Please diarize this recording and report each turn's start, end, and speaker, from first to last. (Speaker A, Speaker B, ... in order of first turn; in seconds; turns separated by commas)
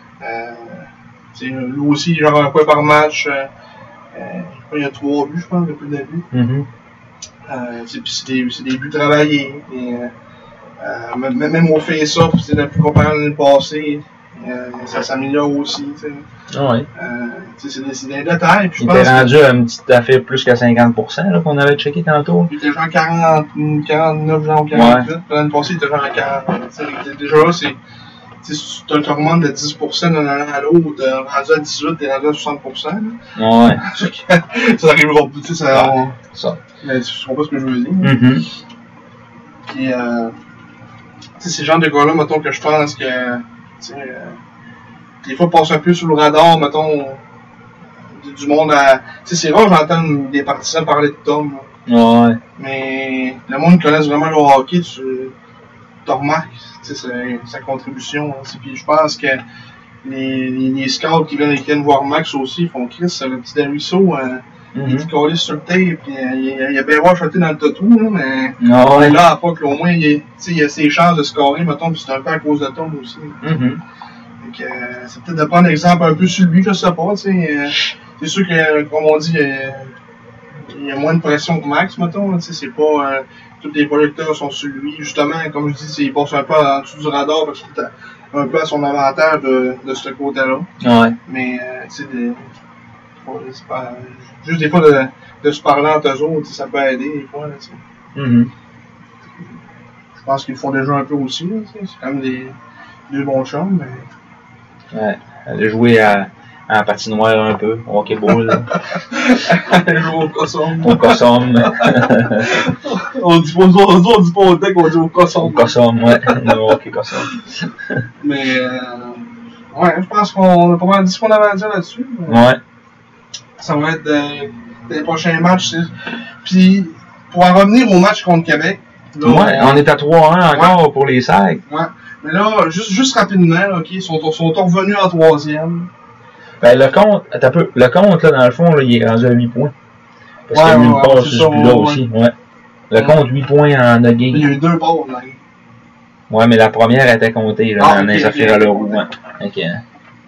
Speaker A: 0.2-3.5, Speaker A: 4.1-6.3, Speaker B: 6.3-6.7, Speaker A: 7.5-10.1, Speaker A: 10.8-16.3, Speaker B: 16.5-16.9, Speaker A: 16.9-19.3, Speaker B: 18.8-22.5, Speaker A: 22.5-27.8, Speaker B: 24.7-25.1, Speaker A: 28.4-33.2, Speaker B: 33.4-33.8, Speaker A: 33.8-36.1, Speaker B: 35.7-36.6, Speaker A: 36.8-38.2, Speaker B: 38.0-38.5, Speaker A: 39.7-40.3, Speaker A: 41.4-44.4, Speaker A: 45.2-47.2, Speaker A: 48.2-51.7, Speaker B: 51.9-52.4, Speaker A: 52.6-55.3, Speaker A: 56.0-59.4, Speaker A: 60.0-73.4, Speaker B: 64.7-65.1, Speaker B: 68.6-69.2, Speaker B: 73.4-73.8, Speaker A: 74.4-79.9, Speaker A: 80.7-90.7, Speaker B: 90.8-91.2, Speaker A: 91.2-92.4, Speaker A: 93.2-97.8, Speaker B: 98.1-98.5, Speaker A: 100.2-102.5, Speaker A: 103.1-104.1, Speaker B: 104.9-108.7, Speaker A: 108.5-116.6, Speaker B: 110.8-112.5, Speaker B: 115.4-118.0, Speaker A: 118.2-122.4, Speaker B: 122.3-122.6, Speaker A: 123.6-125.9, Speaker A: 126.4-129.8, Speaker B: 129.2-131.6, Speaker A: 130.5-130.8, Speaker A: 131.7-135.9, Speaker B: 136.6-139.7, Speaker B: 140.5-142.3, Speaker A: 140.5-142.0, Speaker B: 142.9-144.5, Speaker A: 144.3-145.4, Speaker B: 146.3-149.8, Speaker A: 147.8-149.0